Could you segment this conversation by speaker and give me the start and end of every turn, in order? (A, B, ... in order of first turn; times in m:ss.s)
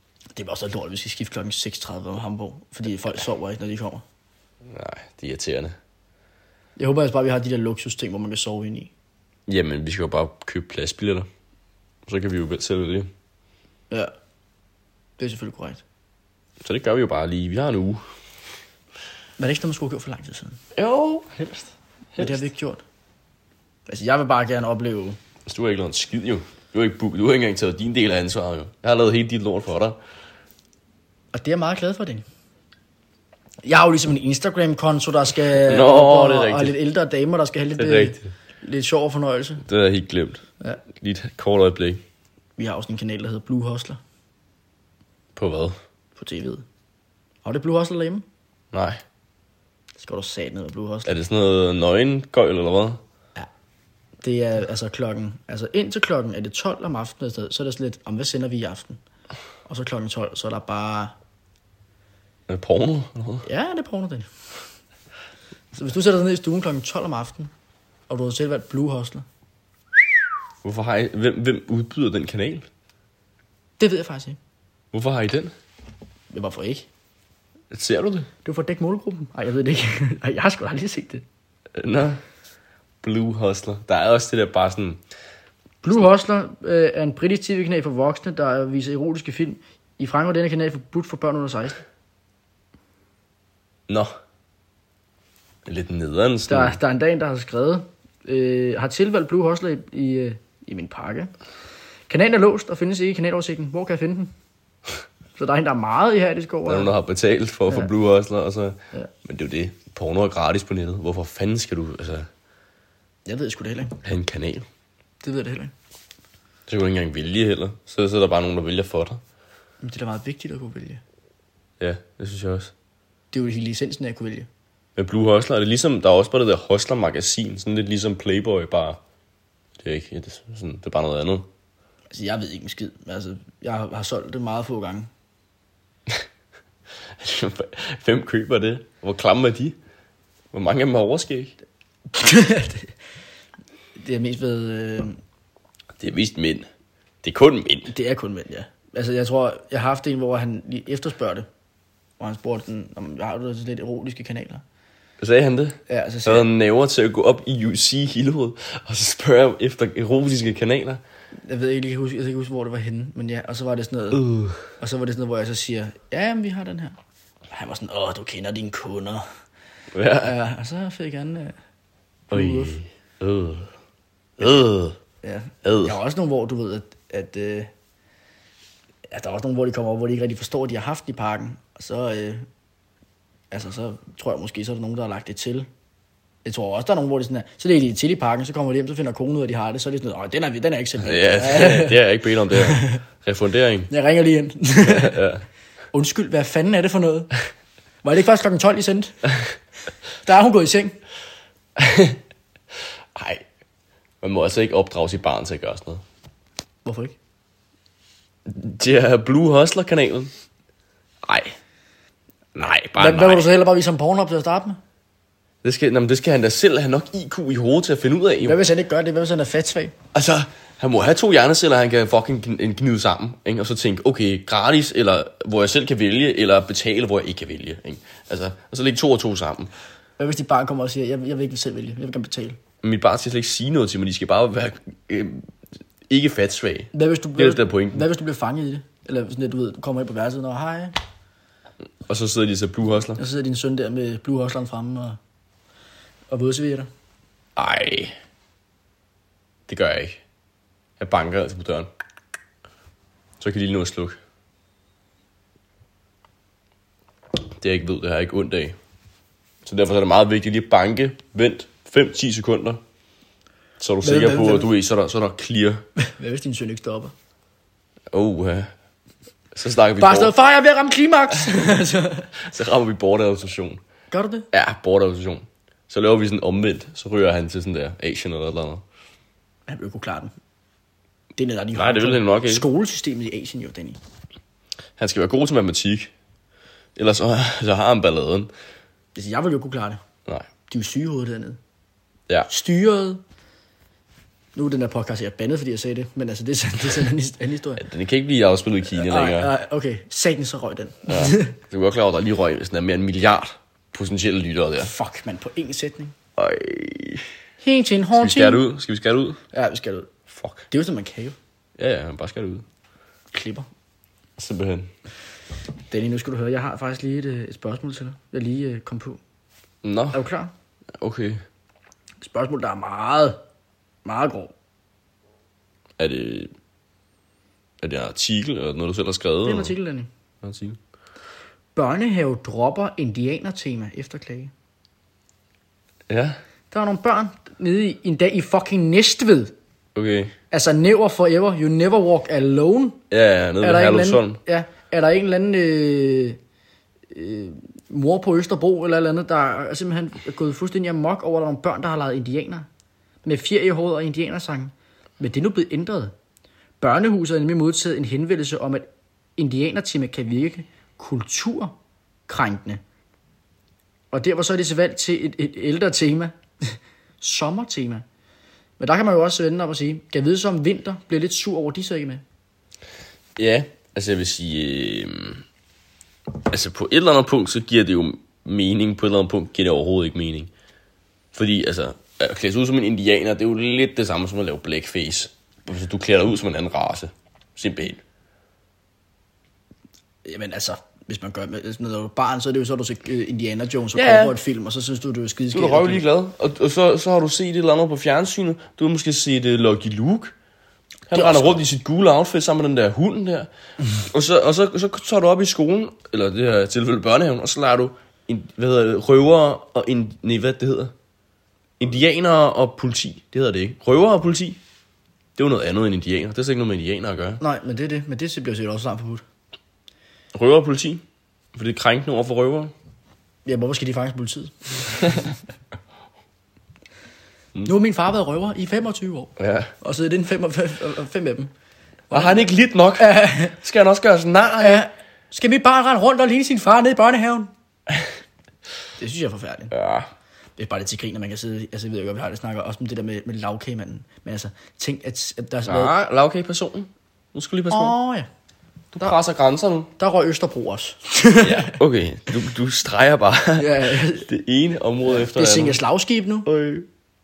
0:00.4-0:04.0 A
0:04.7-0:05.8 B
0:06.8-0:08.9 A
0:09.5-0:11.3 B
0:12.1-0:13.1 B
0:15.2-0:15.8 A
0:16.6-0:18.0 B
0:19.4-0:20.6 A
0:20.7-0:22.4 B
0:22.2-0:22.8 A
0:23.9-0:25.2 A
0:25.4-0:30.0 B
0:31.3-0:32.2 A
0:33.6-0:39.6 A
0:35.6-0:36.7 B
0:37.8-0:38.3 B
0:39.6-0:40.4 B
0:40.9-0:42.0 B
0:42.6-0:44.0 A
0:45.3-0:45.8 B
0:46.2-0:46.6 A
0:47.4-0:48.2 A
0:48.7-0:49.0 B
0:50.0-0:51.1 A
0:51.0-0:53.0 B
0:54.2-0:59.0 A
0:59.6-1:01.2 A
1:02.5-1:03.4 B
1:03.4-1:04.3 A
1:05.7-1:07.5 A
1:08.1-1:09.2 A
1:10.6-1:12.6 B
1:13.8-1:14.4 A
1:14.9-1:15.5 B
1:16.3-1:16.9 A
1:17.7-1:18.3 B
1:18.4-1:21.2 A
1:21.7-1:22.2 B
1:23.0-1:25.0 B
1:25.8-1:31.8 A
1:33.9-1:34.1 B
1:35.6-1:36.8 B
1:36.5-1:41.3 A
1:42.1-1:44.3 A
1:45.4-1:46.9 A
1:46.7-1:52.3 B
1:53.2-1:54.0 A
1:54.0-1:54.6 B
1:55.2-1:55.7 A
1:56.7-1:59.2 B
1:59.8-2:01.0 A
2:01.8-2:02.7 B
2:03.3-2:04.5 A
2:05.0-2:09.0 B
2:09.8-2:11.5 B
2:12.1-2:15.1 A
2:17.1-2:19.8 B
2:20.5-2:21.5 B
2:22.1-2:22.9 A
2:24.0-2:25.2 A
2:26.0-2:26.7 B
2:27.2-2:27.9 B
2:27.9-2:31.5 A
2:32.2-2:34.6 A
2:35.2-2:41.0 B
2:35.9-2:36.5 A
2:41.4-2:44.2 A
2:44.1-2:44.6 B
2:44.8-2:47.0 A
2:47.5-2:49.2 A
2:49.9-2:50.3 B
2:50.2-2:51.6 A
2:52.3-2:52.8 A
2:52.3-2:53.7 B
2:54.4-2:55.0 B
2:55.2-2:57.7 A
2:55.6-2:56.0 B
2:59.1-3:02.4 A
3:03.5-3:05.7 A
3:06.4-3:13.0 A
3:11.0-3:13.9 B
3:13.9-3:15.2 A
3:14.8-3:15.4 B
3:15.9-3:17.3 A
3:18.0-3:19.2 A
3:20.2-3:21.0 A
3:21.8-3:22.2 B
3:23.1-3:23.4 B
3:24.2-3:26.0 B
3:26.8-3:27.2 A
3:28.5-3:30.3 B
3:31.2-3:31.6 B
3:32.5-3:33.5 B
3:32.9-3:34.8 A
3:35.6-3:38.6 B
3:38.4-3:40.0 A
3:40.1-3:49.7 B
3:50.2-3:52.6 A
3:52.8-3:55.4 B
3:56.1-3:58.0 B
3:56.9-4:00.9 A
4:02.1-4:03.2 B
4:03.1-4:05.2 A
4:06.3-4:06.9 A
4:07.6-4:08.1 B
4:09.7-4:10.2 B
4:11.0-4:11.9 B
4:13.4-4:14.2 B
4:17.4-4:18.8 B
4:19.6-4:22.8 B
4:23.8-4:25.8 B
4:24.0-4:24.7 A
4:26.0-4:27.1 A
4:28.1-4:28.7 B
4:29.5-4:30.3 B
4:30.0-4:32.3 A
4:32.4-4:33.8 B
4:34.1-4:34.5 A
4:34.5-4:38.8 B
4:39.7-4:40.3 A
4:41.4-4:44.0 A
4:41.7-4:42.6 B
4:45.0-4:46.1 B
4:47.0-4:48.5 B
4:49.1-4:50.0 A
4:50.7-4:51.6 A
4:52.5-4:53.2 A
4:54.5-4:57.8 A
4:57.8-4:59.5 B
4:58.9-5:01.6 A
5:01.1-5:04.9 B
5:04.8-5:06.1 A
5:06.4-5:07.3 B
5:07.6-5:08.6 A
5:08.2-5:09.4 B
5:09.5-5:10.1 A
5:10.3-5:10.7 B
5:10.7-5:11.3 A
5:11.8-5:12.6 B
5:13.3-5:13.7 A
5:14.4-5:14.9 B
5:15.9-5:19.2 A
5:19.8-5:20.2 B
5:20.1-5:20.5 A
5:21.0-5:21.4 B
5:22.2-5:23.4 A
5:24.0-5:24.5 A
5:26.0-5:26.5 B
5:27.8-5:29.7 B
5:29.4-5:30.1 A
5:30.4-5:30.8 B
5:31.7-5:34.5 A
5:36.1-5:36.4 B
5:36.7-5:39.5 A
5:39.9-5:40.3 B
5:40.5-5:43.0 A
5:43.1-5:44.4 B
5:43.6-5:46.4 A
5:47.1-5:52.7 A
5:53.2-5:56.1 A
5:56.8-5:58.8 A
5:59.4-6:01.7 A
6:02.3-6:02.8 A
6:04.1-6:08.0 A
6:08.8-6:12.2 A
6:13.4-6:15.4 B
6:16.4-6:20.5 B
6:21.3-6:28.0 B
6:30.2-6:36.0 A
6:33.9-6:34.4 B
6:35.5-6:40.3 B
6:41.1-6:50.9 B
6:41.1-6:41.6 A
6:51.8-6:54.6 B
6:55.4-6:57.4 B
6:57.4-6:59.2 A
7:00.3-7:01.0 B
7:01.5-7:02.7 B
7:03.4-7:05.3 A
7:07.6-7:11.5 A
7:09.4-7:09.7 B
7:12.1-7:13.6 A
7:12.1-7:14.8 B
7:14.6-7:17.5 A
7:19.0-7:19.7 A
7:19.7-7:20.1 B
7:20.6-7:25.9 A
7:25.6-7:27.9 B
7:27.7-7:28.3 A
7:28.9-7:29.9 B
7:30.0-7:31.8 A
7:31.4-7:35.8 B
7:33.6-7:34.3 A
7:35.0-7:36.5 A
7:36.4-7:36.9 B